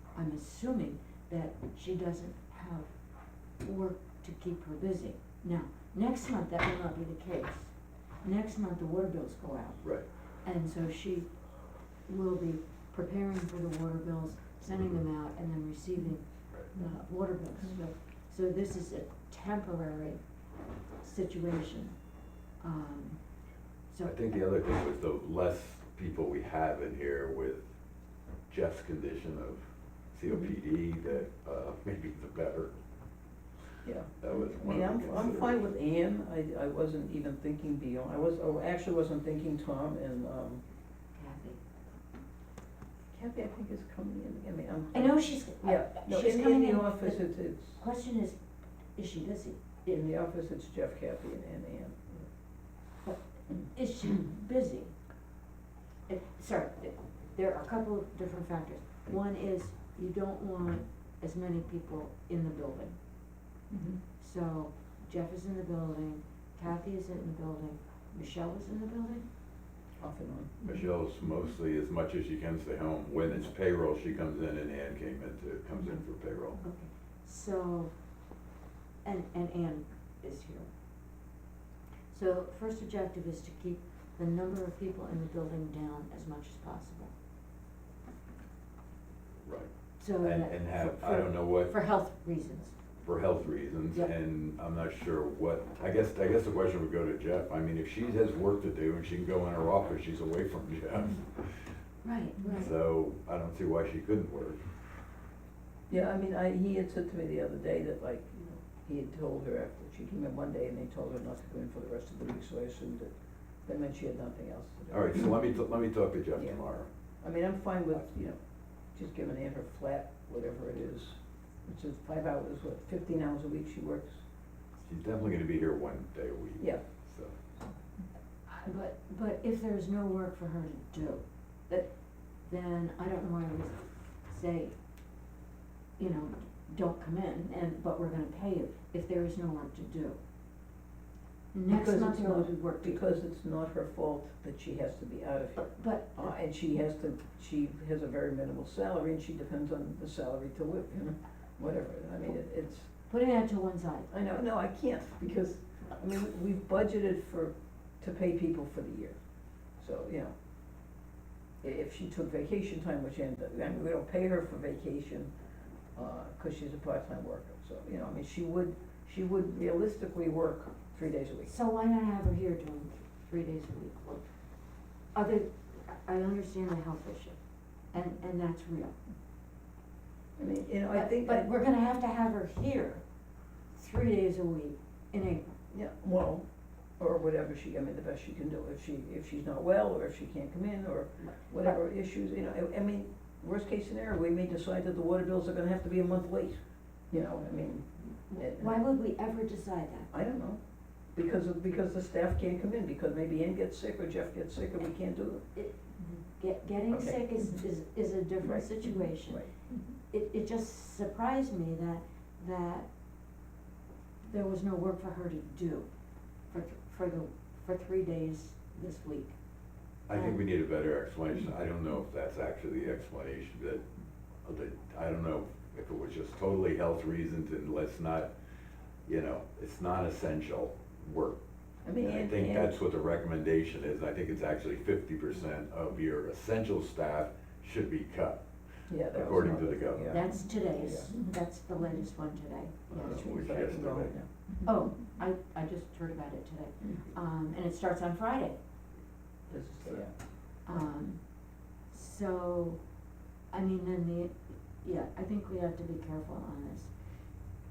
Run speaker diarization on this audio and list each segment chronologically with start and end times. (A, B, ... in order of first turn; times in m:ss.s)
0:00.1-0:02.9 A
0:03.6-0:09.9 A
0:10.4-0:11.3 A
0:12.0-0:20.2 A
0:21.0-0:22.0 A
0:22.6-0:23.2 A
0:24.0-0:27.7 B
0:28.5-0:32.7 B
0:30.3-0:30.5 C
0:33.8-0:40.6 C
0:34.2-0:35.6 B
0:41.1-0:41.6 A
0:43.1-0:47.8 C
0:44.9-0:48.4 A
0:49.0-0:49.6 A
0:49.8-0:52.2 C
0:53.0-0:54.9 A
0:56.1-1:03.0 A
1:03.7-1:04.0 C
1:04.2-1:09.3 A
1:10.0-1:10.6 C
1:10.6-1:16.6 B
1:16.6-1:17.9 A
1:19.0-1:20.7 A
1:22.1-1:27.1 A
1:29.4-1:31.7 B
1:30.0-1:32.8 A
1:33.0-1:41.7 B
1:42.0-1:42.7 A
1:42.4-1:44.6 B
1:45.9-1:53.1 C
1:53.6-1:55.4 C
1:54.9-1:56.9 B
1:56.3-1:56.6 C
1:57.2-1:58.4 C
1:58.9-2:04.2 C
2:04.8-2:07.3 B
2:08.5-2:11.9 A
2:12.4-2:14.7 A
2:16.0-2:20.2 A
2:21.5-2:23.0 A
2:21.7-2:32.9 C
2:25.7-2:26.3 A
2:33.1-2:34.1 A
2:34.1-2:39.2 C
2:39.8-2:40.3 C
2:41.6-2:45.3 C
2:46.0-2:51.5 C
2:51.4-2:54.2 A
2:55.1-2:57.4 A
2:57.9-2:58.9 A
3:00.4-3:01.5 C
3:00.9-3:03.0 A
3:03.7-3:05.5 A
3:05.7-3:06.4 C
3:07.0-3:16.6 C
3:11.2-3:11.8 A
3:17.1-3:18.8 C
3:18.3-3:20.1 A
3:20.1-3:20.6 C
3:21.1-3:25.4 C
3:25.5-3:29.4 A
3:26.9-3:27.5 C
3:28.4-3:29.8 C
3:30.1-3:32.9 A
3:34.2-3:35.9 A
3:36.5-3:39.4 A
3:40.1-3:43.9 B
3:40.1-3:40.4 A
3:44.4-3:48.3 B
3:49.1-3:51.4 B
3:51.8-3:52.8 C
3:52.0-3:58.4 B
3:58.9-4:01.3 C
3:59.1-4:00.2 B
4:00.1-4:03.2 A
4:02.9-4:04.2 B
4:02.9-4:04.3 C
4:04.6-4:08.6 A
4:09.5-4:10.1 C
4:10.6-4:11.2 A
4:11.9-4:12.8 A
4:13.5-4:16.9 A